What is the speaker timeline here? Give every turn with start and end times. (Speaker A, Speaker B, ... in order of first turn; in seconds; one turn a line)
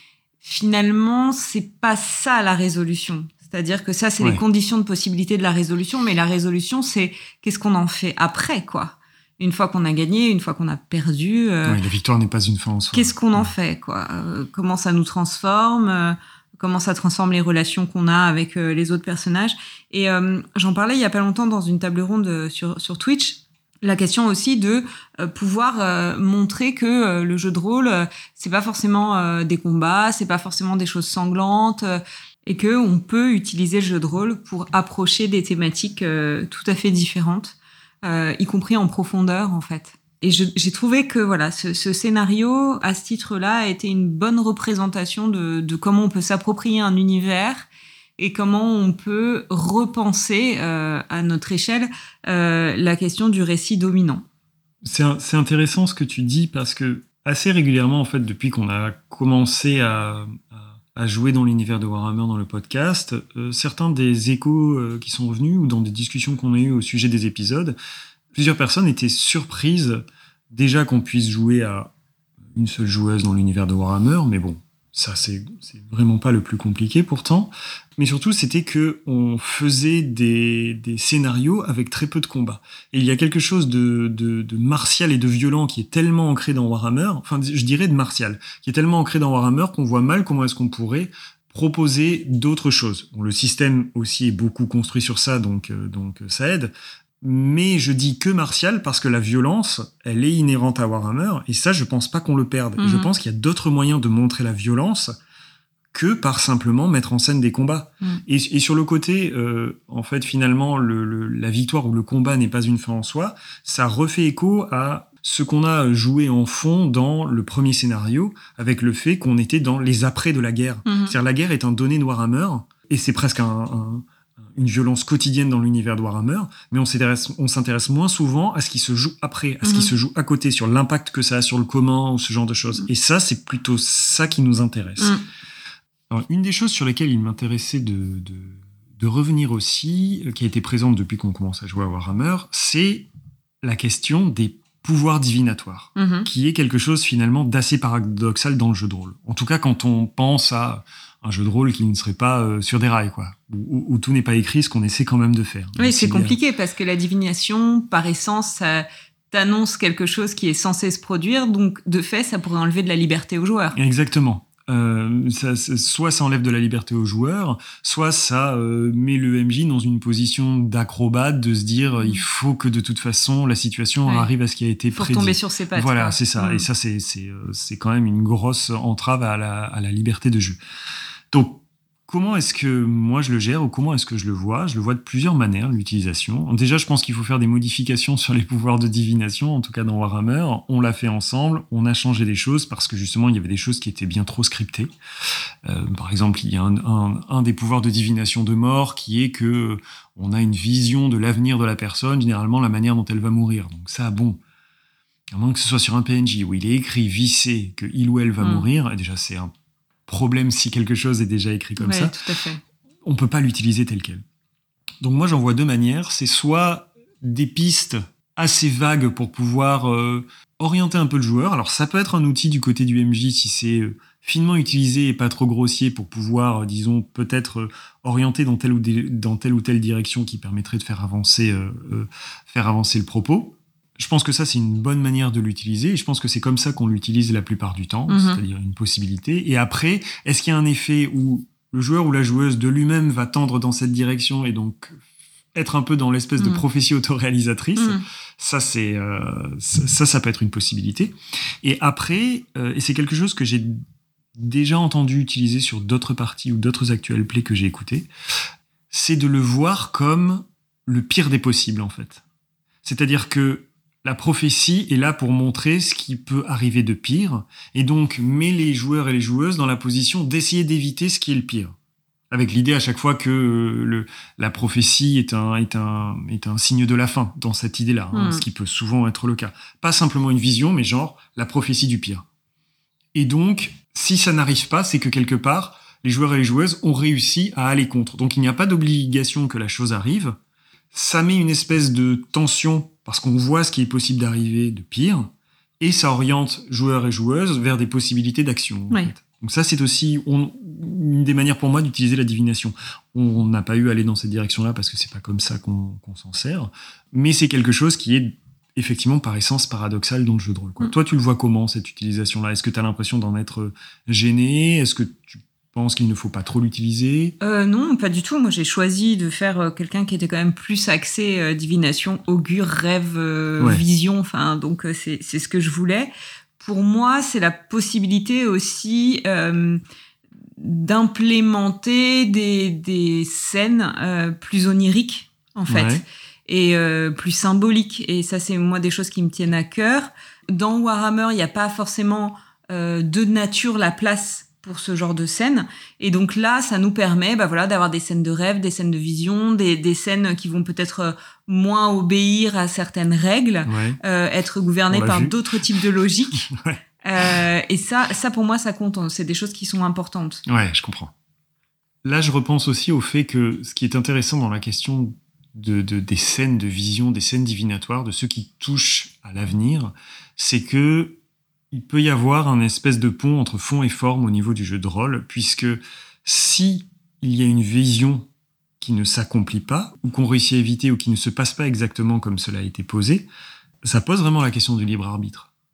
Speaker A: 0.4-11.8
Speaker B: 11.7-13.5
Speaker A: 12.9-47.7
Speaker A: 48.2-54.2
Speaker B: 54.8-67.8
Speaker B: 68.3-71.9
Speaker B: 72.5-105.1
Speaker A: 102.8-103.1
Speaker B: 105.9-135.2
Speaker A: 120.9-121.1
Speaker A: 129.6-129.9
Speaker B: 136.1-143.1
Speaker B: 143.6-156.4
Speaker A: 146.0-146.3
Speaker A: 155.8-163.8
Speaker B: 163.8-180.6
Speaker A: 174.9-176.7
Speaker B: 181.3-194.9
Speaker B: 195.7-204.4
Speaker B: 205.3-209.5
Speaker B: 210.1-212.2
Speaker A: 211.8-212.6
Speaker B: 213.1-214.2
Speaker B: 215.0-245.0
Speaker A: 238.1-238.4
Speaker B: 245.5-253.8
Speaker A: 246.4-246.6
Speaker A: 247.8-248.0
Speaker B: 254.4-258.1
Speaker B: 258.9-262.2
Speaker B: 262.8-271.8
Speaker B: 272.3-282.2
Speaker A: 278.1-278.4
Speaker B: 283.1-290.4
Speaker B: 290.9-317.4
Speaker A: 317.4-329.8
Speaker A: 330.6-356.5
Speaker B: 335.7-336.0
Speaker B: 353.7-354.0
Speaker B: 354.9-355.7
Speaker B: 356.4-357.4
Speaker A: 357.0-360.4
Speaker B: 360.5-361.1
Speaker B: 362.0-371.2
Speaker B: 371.7-378.3
Speaker B: 378.8-383.3
Speaker B: 383.8-385.5